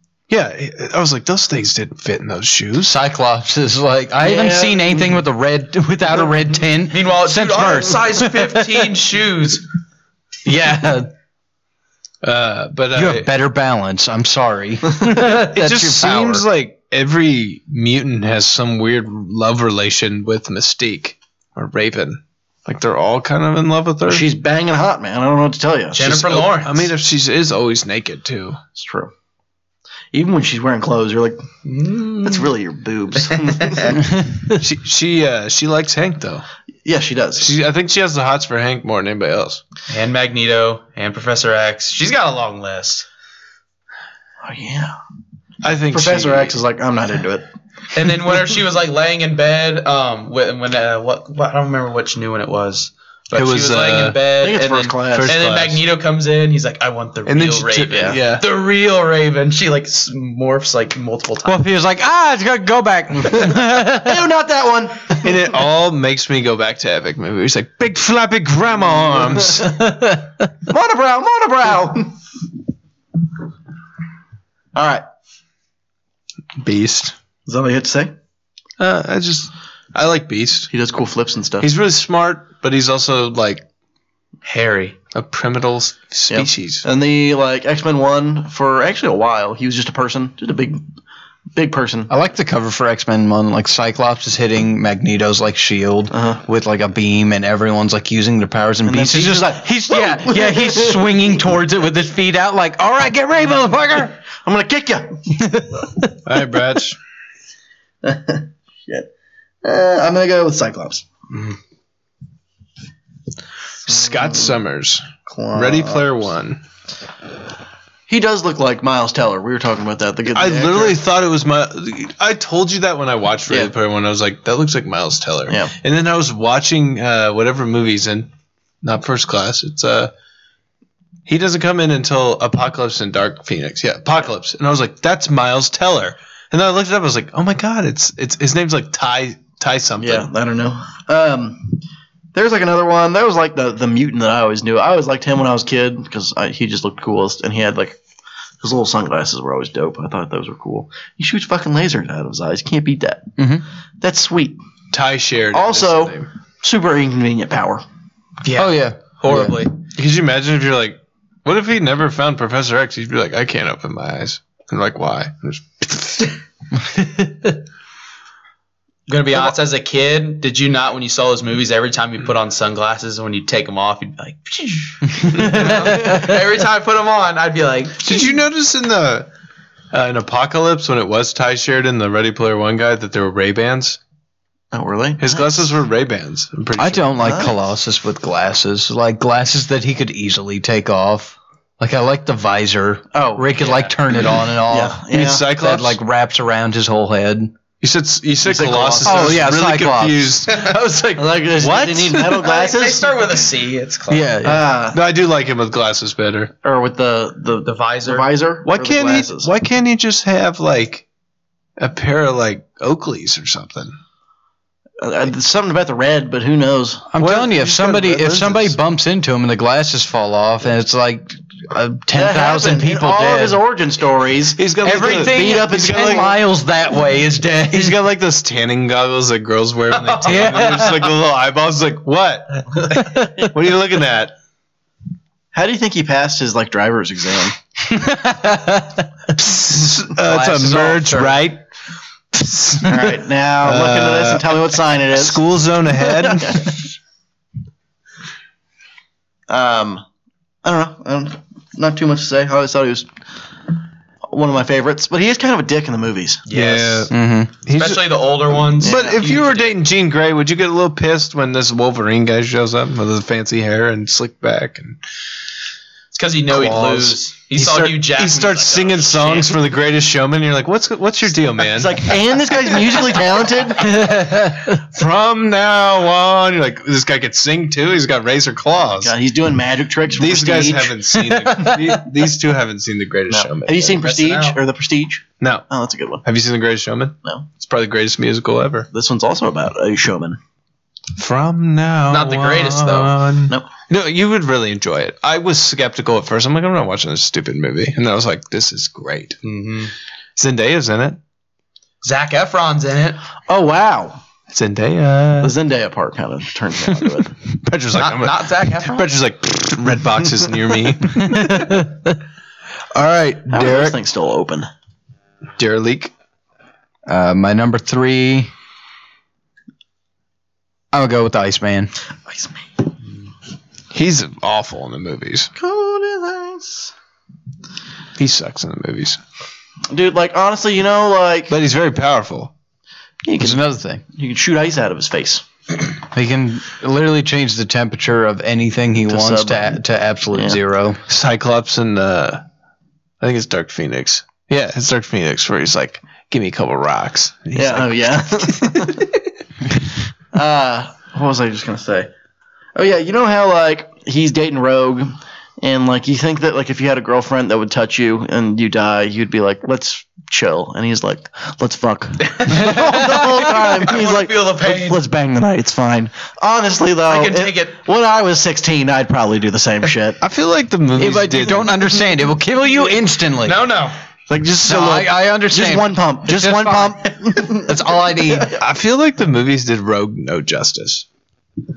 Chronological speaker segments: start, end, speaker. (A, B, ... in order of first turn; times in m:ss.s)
0:00.3-0:02.9 A
0:02.8-0:08.9 B
0:04.2-0:05.1 C
0:06.9-0:09.6 D
0:10.4-0:11.1 B
0:12.2-0:13.3 A
0:12.9-0:16.4 B
0:15.2-0:24.3 A
0:24.0-0:26.1 C
0:25.9-0:26.9 D
0:26.0-0:28.6 A
0:28.8-0:29.1 C
0:30.1-0:31.4 C
0:31.6-0:32.5 D
0:32.2-0:34.0 C
0:33.4-0:34.0 D
0:34.5-0:36.4 A
0:36.8-0:37.5 C
0:37.4-0:39.6 A
0:39.9-0:43.0 D
0:44.4-0:45.0 C
0:45.6-0:46.6 A
0:45.9-0:47.4 C
0:47.9-1:01.6 D
0:53.3-0:54.2 A
0:54.4-0:55.3 C
0:55.1-0:55.8 A
0:57.2-0:58.4 A
0:57.9-0:58.2 C
1:01.4-1:04.2 B
1:03.3-1:05.4 C
1:05.2-1:09.8 A
1:10.6-1:12.2 C
1:14.7-1:15.0 C
1:16.6-1:17.1 A
1:17.5-1:18.1 C
1:18.8-1:20.7 A
1:20.7-1:21.7 C
1:21.6-1:23.6 A
1:24.4-1:25.0 D
1:25.1-1:26.8 A
1:26.3-1:30.8 C
1:31.5-1:32.1 C
1:32.1-1:44.2 B
1:36.1-1:36.4 C
1:38.8-1:41.2 C
1:44.4-1:45.2 C
1:45.4-1:46.1 B
1:46.2-1:47.0 A
1:48.0-1:49.1 C
1:49.6-1:51.1 C
1:53.8-1:56.6 A
1:53.9-1:54.5 C
1:55.2-1:56.2 C
1:58.1-2:01.0 C
2:00.3-2:08.3 A
2:05.5-2:05.7 C
2:08.8-2:10.1 A
2:11.3-2:20.3 A
2:20.0-2:21.8 C
2:22.3-2:28.0 C
2:28.6-2:33.3 C
2:33.4-2:33.6 B
2:34.0-2:34.6 C
2:34.9-2:36.3 A
2:35.5-2:37.8 C
2:38.4-2:39.8 D
2:38.5-2:39.6 B
2:39.8-2:46.3 A
2:47.0-2:47.4 B
2:49.1-2:58.3 D
2:55.3-2:56.1 B
2:58.0-2:59.3 A
2:59.9-3:04.0 A
3:04.7-3:05.7 C
3:05.2-3:07.5 A
3:06.8-3:17.5 B
3:07.2-3:07.5 C
3:13.1-3:13.6 C
3:13.6-3:13.9 D
3:14.6-3:15.4 C
3:15.1-3:16.0 A
3:17.8-3:22.4 A
3:18.4-3:19.5 C
3:19.0-3:21.1 B
3:21.1-3:23.2 C
3:22.4-3:24.4 D
3:24.1-3:24.6 B
3:24.4-3:25.0 C
3:24.9-3:26.5 A
3:26.6-3:29.5 C
3:27.6-3:28.3 D
3:28.6-3:31.0 A
3:31.8-3:34.0 A
3:35.0-3:37.1 C
3:37.1-3:43.6 B
3:37.2-3:38.7 A
3:42.1-3:46.4 C
3:44.6-3:46.3 A
3:44.8-3:48.0 B
3:47.7-3:54.3 A
3:49.9-3:50.9 D
3:50.2-3:51.1 B
3:55.5-3:57.6 C
3:57.9-3:59.1 B
3:59.3-4:01.6 A
4:00.2-4:01.4 B
4:02.3-4:06.7 A
4:02.8-4:05.4 C
4:06.0-4:06.7 C
4:09.5-4:10.0 C
4:10.6-4:13.1 C
4:14.3-4:16.4 C
4:16.5-4:17.1 D
4:16.5-4:25.0 A
4:17.1-4:17.5 B
4:17.7-4:19.7 D
4:18.8-4:19.2 C
4:26.1-4:29.6 D
4:26.5-4:32.1 A
4:31.6-4:34.0 C
4:32.7-4:33.2 A
4:33.8-4:34.7 B
4:33.9-4:39.1 A
4:39.0-4:41.0 C
4:40.1-4:44.0 A
4:41.3-4:42.0 B
4:43.3-4:46.2 C
4:44.0-4:44.6 D
4:45.4-4:45.7 A
4:46.2-4:48.9 A
4:48.9-4:50.4 C
4:51.2-4:59.4 A
4:52.1-4:53.1 D
4:59.4-4:59.9 D
5:00.4-5:01.2 A
5:02.0-5:03.2 D
5:03.5-5:04.2 C
5:04.5-5:05.5 A
5:05.4-5:07.3 C
5:07.5-5:11.9 A
5:07.9-5:09.1 D
5:11.1-5:12.1 B
5:12.9-5:14.0 A
5:13.5-5:14.7 C
5:15.6-5:16.1 A
5:17.0-5:18.5 B
5:20.9-5:21.9 B
5:22.3-5:22.6 C
5:23.9-5:25.5 A
5:25.6-5:26.9 C
5:28.2-5:29.2 A
5:29.9-5:31.5 C
5:31.5-5:32.5 A
5:33.2-5:33.6 C
5:33.4-5:34.0 B
5:34.1-5:35.4 C
5:36.1-5:41.0 B
5:39.1-5:39.8 C
5:40.3-5:40.6 C
5:41.1-5:42.4 A
5:43.2-5:49.1 A
5:47.5-5:49.0 C
5:50.3-5:52.1 C
5:52.7-6:10.2 C
6:02.2-6:05.0 D
6:07.0-6:07.7 D
6:10.2-6:11.9 A
6:11.0-6:13.6 B
6:13.4-6:14.0 D
6:14.3-6:17.7 C
6:14.6-6:18.5 B
6:18.5-6:21.0 A